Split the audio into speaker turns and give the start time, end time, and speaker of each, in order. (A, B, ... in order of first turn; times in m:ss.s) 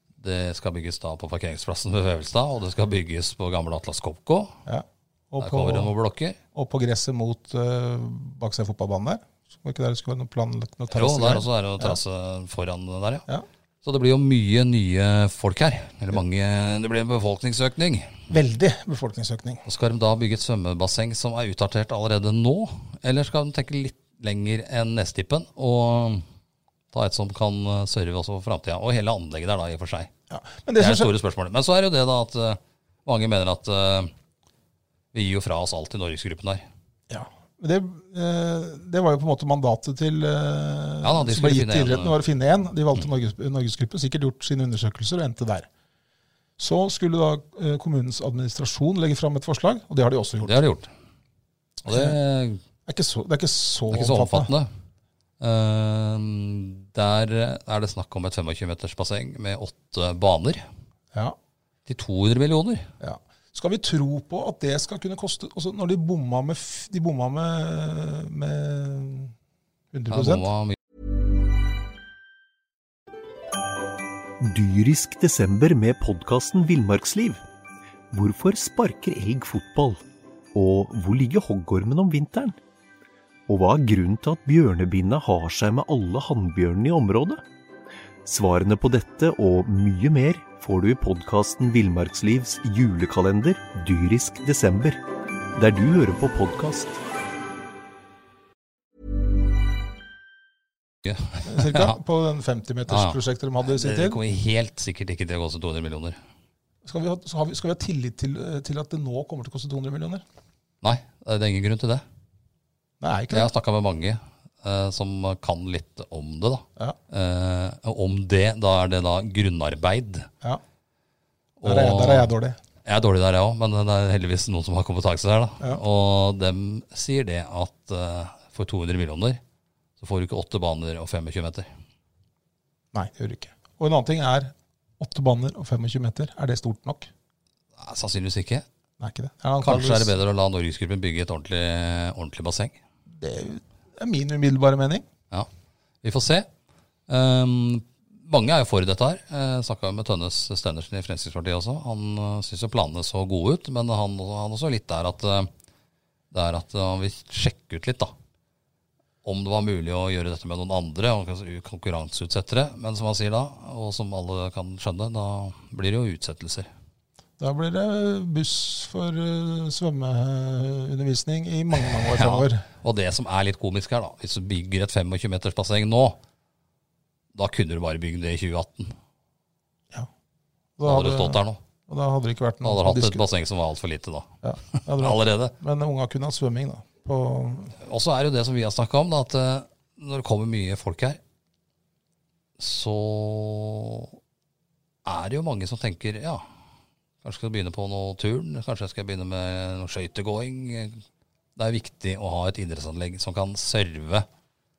0:00.2-0:04.6 A
0:04.6-0:05.9 B
0:05.4-0:06.4 A
0:06.5-0:12.0 B
0:10.9-0:13.2 A
0:13.8-0:18.2 A
0:18.3-0:19.6 B
0:19.6-0:26.2 A
0:26.9-0:30.1 A
0:30.3-0:31.1 B
0:30.8-0:34.1 A
0:35.1-0:36.6 A
0:37.1-0:45.7 B
0:41.0-0:42.2 A
0:46.6-0:50.6 B
0:50.4-0:50.9 A
0:51.8-0:52.2 B
0:51.9-0:52.6 A
0:52.9-0:54.5 B
0:53.9-0:54.7 A
0:55.4-1:00.6 A
1:01.9-1:02.9 A
1:03.0-1:09.3 B
1:09.9-1:10.5 B
1:10.1-1:10.8 A
1:14.4-1:17.4 C
1:18.1-1:20.0 C
1:20.5-1:22.6 C
1:23.5-1:27.4 C
1:28.2-1:35.0 C
1:35.6-1:37.0 C
1:41.0-1:42.0 A
1:41.4-1:44.2 B
1:42.9-1:46.2 A
1:46.8-1:50.2 B
1:50.8-1:52.0 A
1:53.0-1:53.5 B
1:53.3-2:00.3 A
2:01.6-2:02.3 A
2:01.6-2:02.6 B
2:02.8-2:09.4 A
2:10.0-2:11.7 A
2:12.9-2:17.1 B
2:17.8-2:18.6 A
2:19.0-2:20.1 B
2:19.6-2:22.8 A
2:23.1-2:25.0 B
2:26.0-2:26.5 A
2:27.1-2:35.5 A
2:36.3-2:38.1 A
2:39.2-2:46.7 A
2:47.4-2:52.6 B
2:52.0-2:56.2 A
2:57.4-2:58.9 A
3:00.8-3:03.2 B
3:00.8-3:01.6 A
3:02.6-3:05.5 A
3:04.4-3:07.8 B
3:07.8-3:11.2 A
3:12.6-3:14.1 A
3:15.0-3:16.4 A
3:17.2-3:21.0 A
3:21.6-3:24.2 A